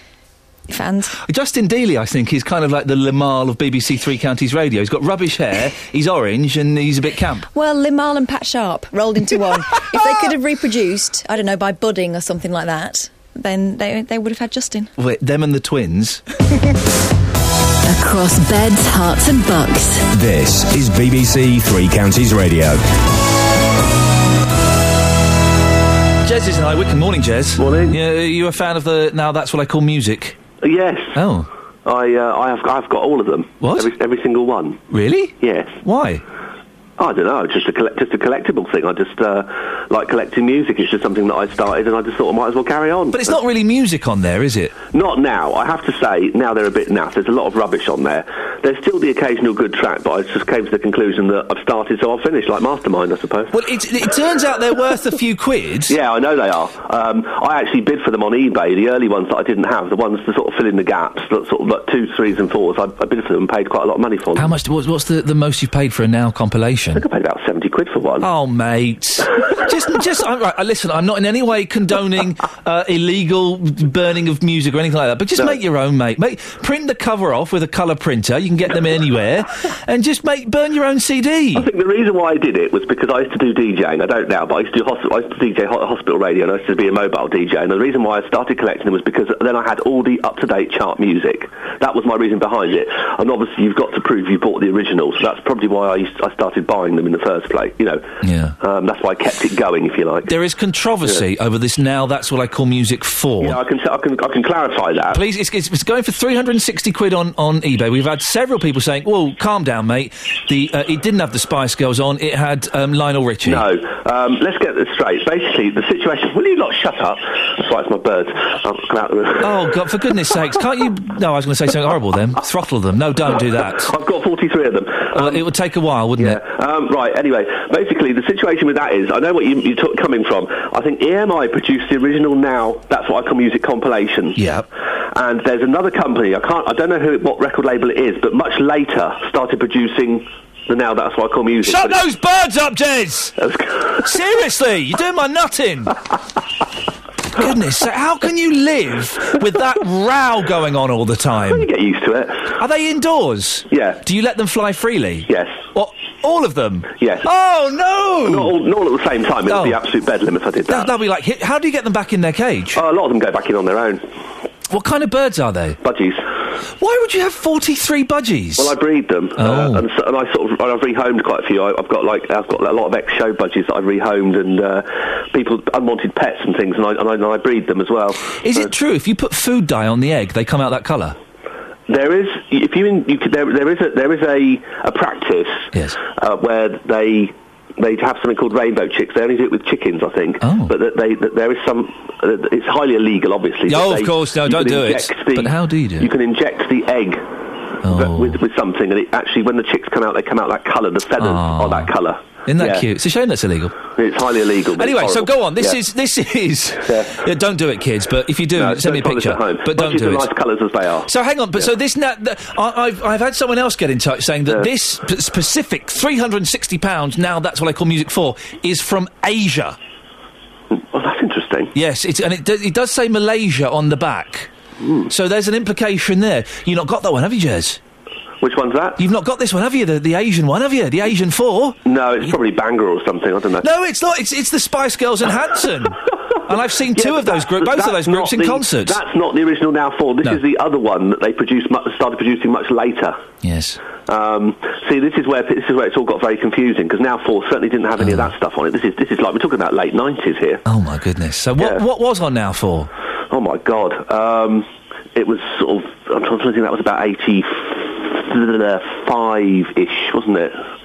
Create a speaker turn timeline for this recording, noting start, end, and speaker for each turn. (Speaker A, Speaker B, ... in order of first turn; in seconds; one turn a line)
Speaker A: 0.7-1.2
Speaker B: 1.2-7.5
Speaker A: 7.5-14.9
Speaker B: 15.0-16.2
Speaker C: 17.9-20.1
Speaker D: 20.1-22.8
Speaker B: 26.2-30.4
Speaker E: 27.6-27.9
Speaker E: 30.6-31.2
Speaker B: 31.1-31.5
Speaker E: 31.9-34.8
Speaker B: 33.6-33.9
Speaker B: 34.9-36.2
Speaker E: 35.4-35.8
Speaker E: 37.0-43.4
Speaker B: 43.1-44.8
Speaker E: 44.9-53.5
Speaker B: 53.5-56.0
Speaker E: 55.9-64.5
Speaker B: 64.4-67.0
Speaker E: 67.0-68.3
Speaker B: 68.2-81.7
Speaker E: 81.5-98.1
Speaker B: 98.2-98.6
Speaker E: 98.6-100.3
Speaker B: 100.3-103.6
Speaker E: 103.4-105.2
Speaker B: 105.1-113.6
Speaker E: 113.4-119.7
Speaker B: 119.4-123.9
Speaker E: 123.8-125.4
Speaker B: 125.1-126.4
Speaker E: 126.2-134.4
Speaker B: 134.4-134.7
Speaker E: 135.1-142.0
Speaker B: 141.6-143.4
Speaker E: 143.4-144.0
Speaker B: 144.0-146.0
Speaker B: 147.3-151.7
Speaker E: 151.5-152.6
Speaker B: 152.6-158.5
Speaker E: 153.7-154.0
Speaker E: 155.3-155.6
Speaker E: 157.0-157.3
Speaker E: 158.3-160.9
Speaker B: 159.5-159.8
Speaker B: 160.7-162.8
Speaker E: 162.8-164.1
Speaker B: 164.7-165.8
Speaker E: 165.8-166.3
Speaker B: 166.8-168.7
Speaker E: 168.6-178.7
Speaker B: 169.4-169.8
Speaker B: 178.4-181.2
Speaker E: 181.9-197.2
Speaker B: 185.7-186.0
Speaker B: 190.4-190.7
Speaker B: 193.7-196.1
Speaker B: 197.8-198.4
Speaker E: 197.9-202.8
Speaker B: 201.2-201.9
Speaker B: 202.5-203.8
Speaker E: 204.0-205.8
Speaker B: 204.8-210.3
Speaker E: 206.9-207.1
Speaker E: 208.6-211.1
Speaker B: 211.1-219.8
Speaker E: 220.7-221.7
Speaker B: 221.7-224.5
Speaker E: 224.8-225.1
Speaker B: 225.1-227.8
Speaker E: 228.4-229.0
Speaker B: 229.0-231.8
Speaker E: 231.8-233.7
Speaker B: 233.6-239.0
Speaker E: 237.0-243.2
Speaker B: 243.4-243.8
Speaker E: 244.1-250.6
Speaker B: 248.0-248.3
Speaker B: 250.7-252.9
Speaker E: 253.3-260.6